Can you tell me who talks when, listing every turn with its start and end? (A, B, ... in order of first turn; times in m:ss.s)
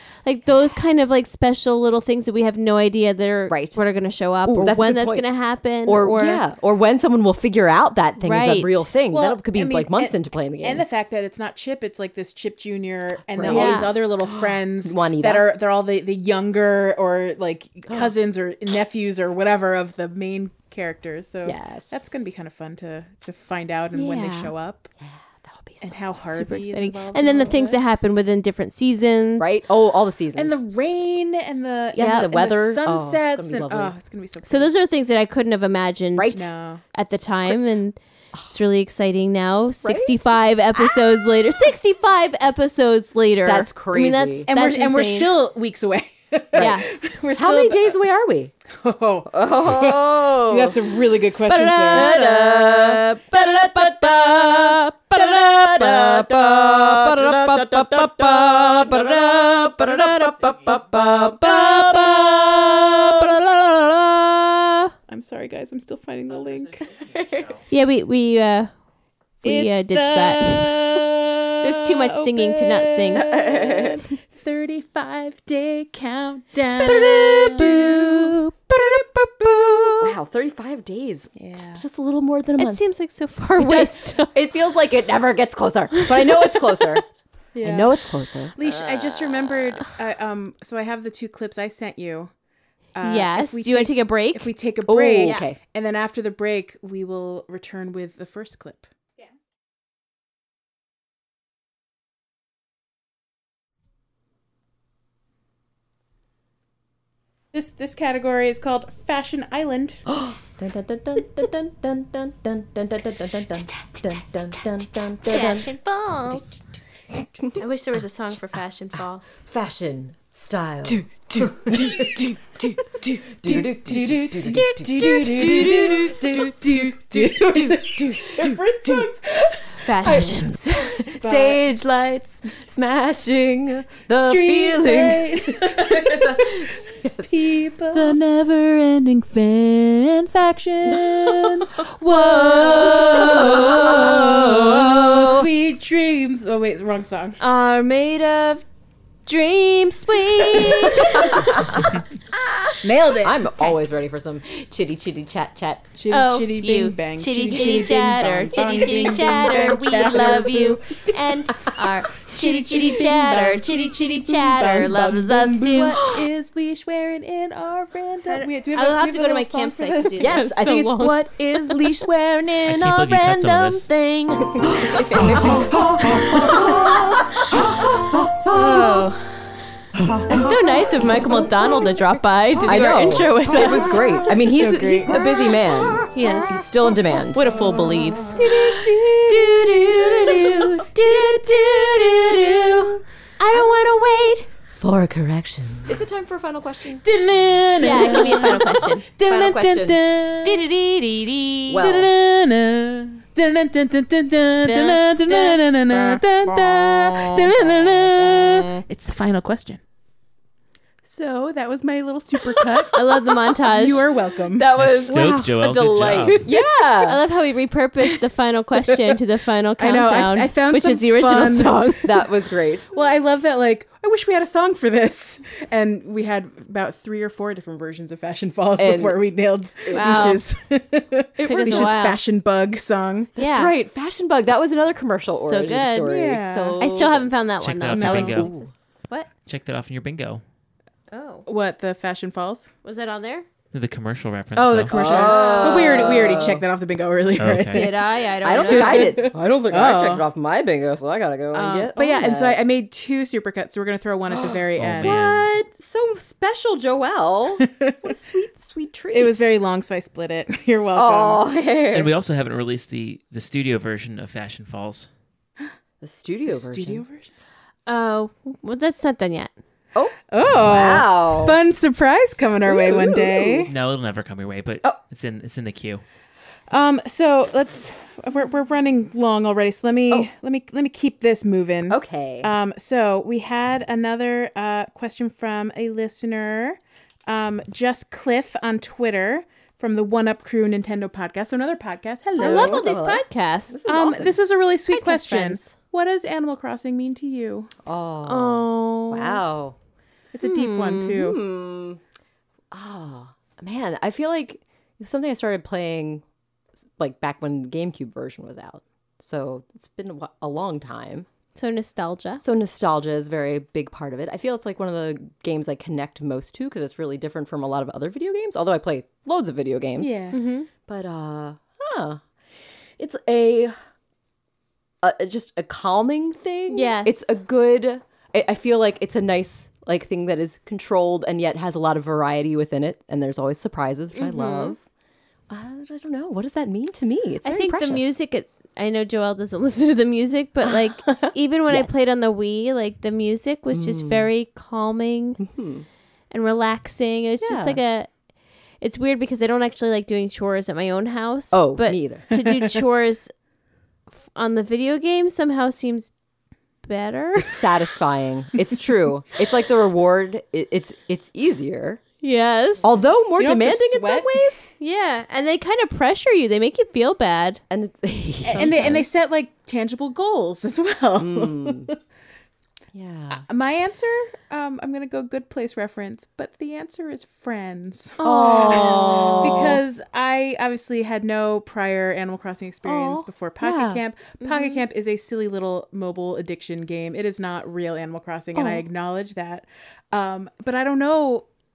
0:00.2-0:06.4 A
0:03.5-0:03.8 B
0:04.4-0:10.8 B
0:08.2-0:08.9 A
0:09.1-0:24.9 C
0:13.3-0:15.5 B
0:13.4-0:14.0 A
0:17.9-0:18.1 B
0:21.4-0:22.0 B
0:23.9-0:24.5 A
0:25.0-0:25.9 B
0:25.8-0:28.0 C
0:25.9-0:29.6 A
0:29.4-0:30.6 B
0:30.4-0:34.7 C
0:31.9-0:34.0 B
0:32.0-0:32.3 A
0:34.4-0:38.0 A
0:36.2-0:36.5 B
0:36.3-0:36.8 C
0:38.5-0:45.4 A
0:39.8-0:40.4 B
0:43.4-0:44.5 B
0:44.5-0:48.0 C
0:46.5-0:48.5 B
0:46.6-0:47.2 A
0:48.7-0:52.1 C
0:49.3-0:50.8 B
0:51.5-1:04.9 A
0:51.9-1:03.2 B
1:05.1-1:06.9 C
1:06.5-1:07.5 D
1:07.0-1:07.5 B
1:07.7-1:08.8 A
1:09.4-1:11.0 A
1:09.4-1:18.3 C
1:11.6-1:13.4 A
1:13.1-1:14.0 B
1:16.8-1:20.2 A
1:20.0-1:22.9 B
1:21.4-1:21.8 C
1:22.6-1:24.4 A
1:23.6-1:27.0 B
1:25.9-1:26.8 A
1:27.6-1:28.0 C
1:27.6-1:29.5 B
1:28.6-1:32.3 C
1:33.0-1:38.9 C
1:33.0-1:34.5 A
1:34.8-1:35.6 B
1:47.5-1:50.0 C
1:50.1-1:55.7 B
1:55.2-1:56.5 A
1:56.3-1:56.6 B
1:57.6-1:59.4 A
1:59.4-2:02.8 B
2:00.9-2:11.6 C
2:03.3-2:05.8 B
2:04.5-2:06.7 A
2:06.7-2:09.1 B
2:09.8-2:10.9 A
2:10.0-2:17.4 B
2:14.2-2:16.7 C
2:17.3-2:27.4 C
2:20.8-2:25.5 B
2:22.5-2:23.5 A
2:27.4-2:28.6 A
2:29.3-2:31.4 A
2:30.8-2:35.9 B
2:32.8-2:33.5 C
2:36.0-2:50.5 C
2:36.1-2:46.0 A
2:39.2-2:40.2 B
2:48.3-2:52.1 A
2:50.2-2:59.0 B
2:52.6-2:53.9 D
2:58.4-2:59.4 A
3:00.3-3:04.2 A
3:02.6-3:07.6 B
3:03.6-3:05.2 C
3:06.1-3:06.6 A
3:07.3-3:08.5 A
3:08.2-3:13.0 C
3:09.3-3:14.5 A
3:14.7-3:17.0 B
3:17.0-3:20.6 C
3:17.8-3:19.1 A
3:17.9-3:18.6 B
3:19.1-3:20.1 B
3:20.4-3:21.8 A
3:21.7-3:22.1 B
3:21.8-3:29.8 C
3:24.6-3:27.5 A
3:31.0-3:34.7 C
3:32.9-3:34.1 A
3:34.5-3:37.2 B
3:34.8-3:36.4 D
3:35.1-3:35.5 A
3:37.0-3:42.2 A
3:39.8-3:41.9 C
3:42.0-3:42.9 B
3:42.9-3:53.4 C
3:48.8-3:49.2 B
3:49.8-3:50.4 B
3:49.9-3:50.5 A
3:51.4-3:52.0 B
3:51.4-3:52.2 A
3:53.4-3:57.4 B
3:53.4-3:53.7 A
3:55.3-3:56.2 A
3:56.0-3:57.2 C
3:56.8-3:59.3 A
3:57.6-3:58.5 D
3:57.9-3:58.4 C
3:58.0-3:58.7 B
3:59.4-4:00.4 D
4:01.1-4:01.5 A
4:01.5-4:02.7 C
4:02.8-4:03.5 A
4:03.7-4:05.0 D
4:04.6-4:08.1 C
4:04.9-4:06.6 B
4:05.1-4:06.2 A
4:07.4-4:08.0 D
4:07.7-4:09.3 A
4:08.4-4:12.6 B
4:08.6-4:10.3 C
4:11.5-4:15.3 C
4:14.3-4:19.5 B
4:14.8-4:15.4 D
4:17.6-4:17.9 C
4:19.1-4:21.4 C
4:20.9-4:22.1 B
4:21.9-4:25.1 D
4:26.0-4:27.0 B
4:26.5-4:27.3 C
4:27.9-4:29.5 A
4:29.9-4:31.6 B
4:30.3-4:33.7 C
4:32.7-4:33.7 B
4:33.7-4:36.0 D
4:36.7-4:52.9 C
4:41.9-4:42.5 B
4:52.4-4:54.1 A
4:52.4-4:54.4 B
4:53.9-4:57.7 C
4:54.9-4:55.8 A
4:57.8-4:59.8 B
4:58.3-4:59.4 A
5:00.3-5:01.4 C
5:00.4-5:01.2 A
5:01.1-5:02.0 B
5:02.7-5:06.2 B
5:07.0-5:11.3 B
5:11.6-5:12.4 A
5:12.4-5:20.2 B
5:20.0-5:20.4 C
5:20.3-5:20.7 A
5:20.8-5:22.2 B
5:23.0-5:23.8 B
5:25.0-5:34.8 B
5:26.7-5:27.4 A
5:34.2-5:34.8 A
5:35.5-5:38.2 B
5:37.4-5:45.4 A
5:40.6-5:42.0 B
5:43.7-5:44.3 B
5:45.4-5:45.9 B
5:46.3-5:48.1 A
5:47.4-5:47.8 B
5:48.8-5:53.3 A
5:51.5-5:52.4 B
5:54.1-5:56.1 A
5:56.8-5:57.7 A
5:57.4-6:02.0 B
6:02.2-6:02.9 A
6:02.8-6:04.7 B
6:03.4-6:04.7 C
6:04.8-6:07.6 A
6:07.7-6:09.1 B
6:08.5-6:12.0 C
6:08.6-6:08.9 A
6:11.2-6:11.9 B
6:12.9-6:13.4 B
6:13.3-6:31.5 C
6:18.2-6:19.7 A
6:18.2-6:19.8 B
6:22.8-6:24.0 B
6:24.4-6:24.8 A
6:28.6-6:28.9 B